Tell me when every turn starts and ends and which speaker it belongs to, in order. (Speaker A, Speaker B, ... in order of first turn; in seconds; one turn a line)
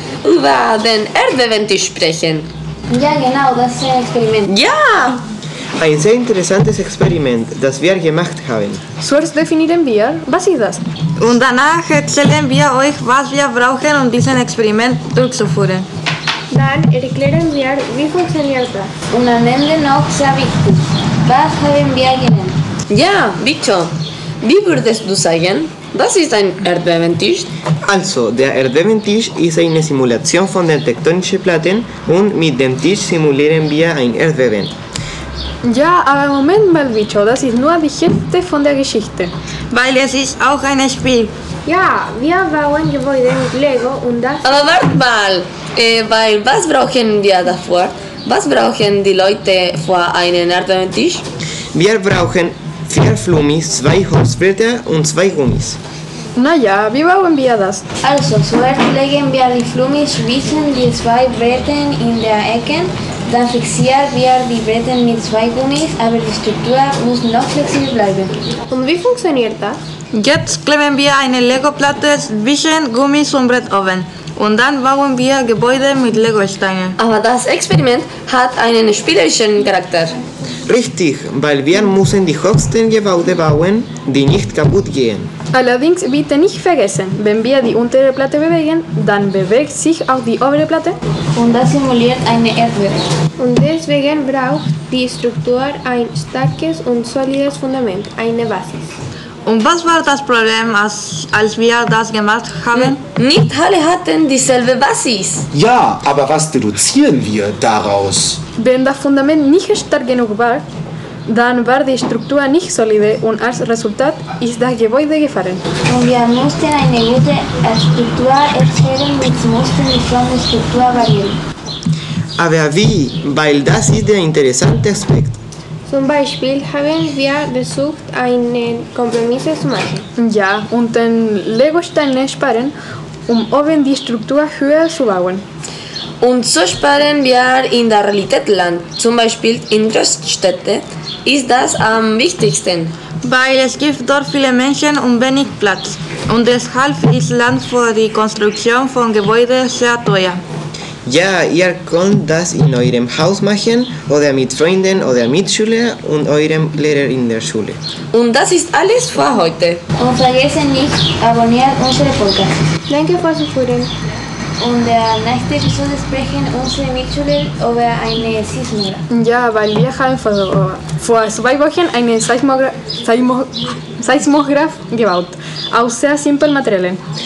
Speaker A: 0.2-2.2
Speaker B: 2.9-4.5
Speaker A: 4.6-5.0
Speaker C: 5.8-8.8
Speaker D: 9.0-10.8
Speaker E: 11.2-15.9
Speaker F: 16.5-18.9
Speaker B: 19.1-22.6
Speaker A: 22.9-23.9
Speaker A: 24.4-27.4
Speaker C: 27.8-34.7
Speaker D: 35.6-39.3
Speaker E: 39.7-41.3
Speaker F: 41.6-44.7
Speaker A: 44.4-51.2
Speaker C: 51.7-55.8
Speaker D: 56.4-57.8
Speaker B: 58.0-68.4
Speaker F: 68.7-69.8
Speaker E: 70.1-77.0
Speaker A: 77.2-80.1
Speaker C: 80.7-85.3
Speaker D: 85.5-91.0
Speaker B: 91.3-93.0
Speaker F: 93.4-98.9
Speaker E: 99.5-103.0
Speaker A: 103.2-105.4
Speaker G: 105.5-108.4
Speaker D: 108.6-110.6
Speaker D: 111.2-115.6
Speaker B: 115.9-121.4
Speaker C: 122.4-125.4
Speaker F: 125.9-130.0
Speaker D: 130.2-132.7
Speaker D: 133.3-135.4
Speaker A: 136.2-142.8
Speaker E: 143.2-150.4
Speaker C: 151.0-157.8
Speaker A: 158.1-159.8
Speaker B: 160.0-162.5
Speaker F: 162.9-163.9
Speaker B: 164.6-169.0
Speaker D: 169.1-177.0